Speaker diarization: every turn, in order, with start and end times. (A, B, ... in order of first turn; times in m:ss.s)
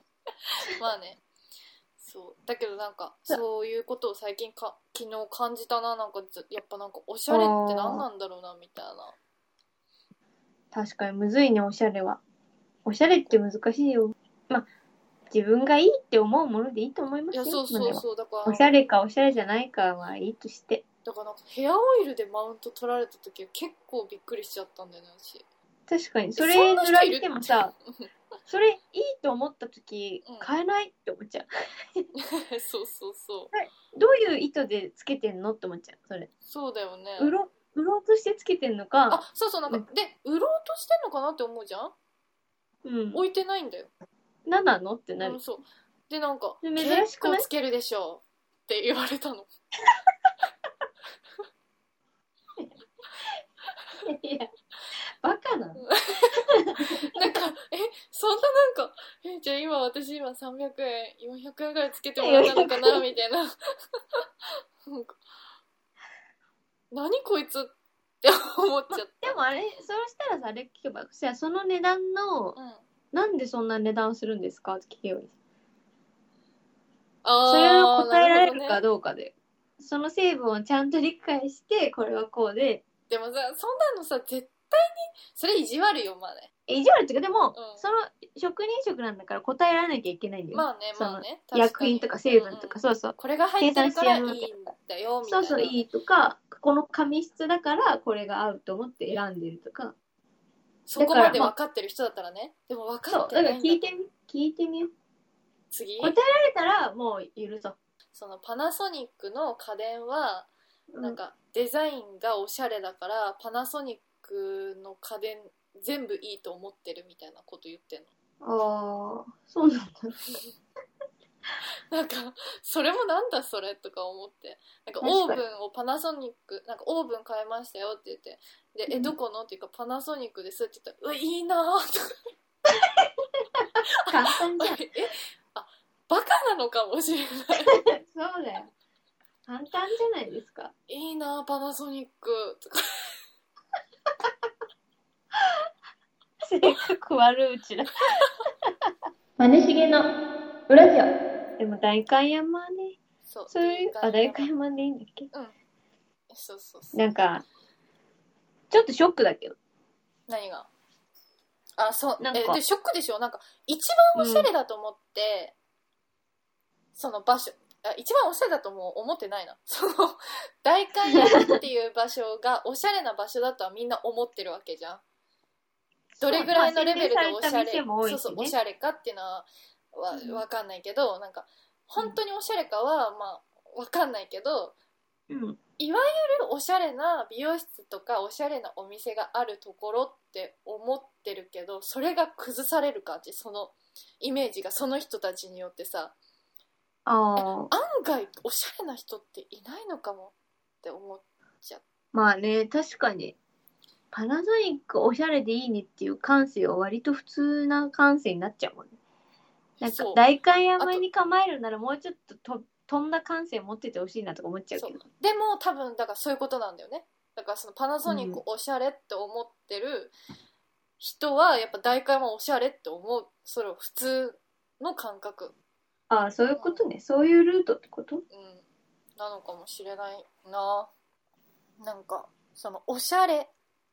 0:00.7-0:01.2 A
0:02.0-0:09.2 A
0:07.3-0:08.1 B
0:10.7-0:12.2 B
0:12.8-0:14.7 B
0:15.3-0:20.8 B
0:17.3-0:18.7 A
0:21.0-0:25.4 A
0:25.9-0:27.7 B
0:26.4-0:28.1 A
0:28.5-0:31.5 B
0:30.2-0:30.5 A
0:32.2-0:33.5 A
0:33.5-0:36.3 B
0:36.4-0:37.3 A
0:37.2-0:39.9 B
0:39.1-0:41.9 A
0:42.8-0:43.2 B
0:43.1-0:43.9 A
0:44.5-0:45.4 B
0:45.2-0:49.5 A
0:46.6-0:47.5 B
0:54.0-0:54.5 B
0:55.2-0:57.2 B
0:55.8-0:56.5 A
0:57.0-1:03.5 A
1:02.2-1:03.1 B
1:04.8-1:05.2 A
1:06.9-1:09.4 A
1:08.9-1:12.6 B
1:12.6-1:12.8 A
1:13.1-1:15.3 B
1:17.2-1:18.8 A
1:17.5-1:22.8 B
1:23.1-1:26.5 A
1:26.7-1:34.5 B
1:27.6-1:27.8 A
1:30.5-1:35.8 A
1:35.2-1:40.0 B
1:40.9-1:43.8 A
1:41.0-1:41.5 B
1:43.1-1:44.9 B
1:45.7-1:46.2 A
1:46.0-1:47.8 B
1:48.1-1:50.5 A
1:50.9-1:51.2 B
1:51.0-1:58.1 A
1:58.4-2:00.2 B
2:01.9-2:12.2 A
2:05.0-2:05.4 B
2:08.9-2:09.2 B
2:12.7-2:14.8 B
2:14.1-2:17.8 A
2:17.6-2:18.7 B
2:19.5-2:20.7 B
2:20.9-2:23.2 A
2:26.4-2:28.2 B
2:29.4-2:30.1 B
2:30.7-2:33.0 B
2:33.2-2:34.5 A
2:33.5-2:35.3 B
2:36.3-2:37.0 A
2:36.9-2:37.4 B
2:38.7-2:39.6 B
2:40.3-2:40.7 A
2:41.8-2:45.6 A
2:42.2-2:42.6 B
2:44.2-2:44.5 B
2:47.0-2:55.0 A
2:51.1-2:51.6 B
2:56.1-2:58.6 B
2:56.2-3:04.8 A
3:00.1-3:00.4 B
3:05.3-3:05.6 B
3:05.8-3:16.1 A
3:17.1-3:17.7 B
3:17.4-3:21.8 A
3:22.1-3:23.4 B
3:24.1-3:29.0 B
3:29.8-3:30.2 A
3:29.8-3:35.0 B
3:34.8-3:40.1 A
3:38.1-3:38.4 B
3:41.0-3:45.5 A
3:46.1-3:48.2 B
3:46.5-3:46.8 A
3:48.3-3:48.6 A
3:49.2-3:50.9 A
3:51.8-3:53.5 A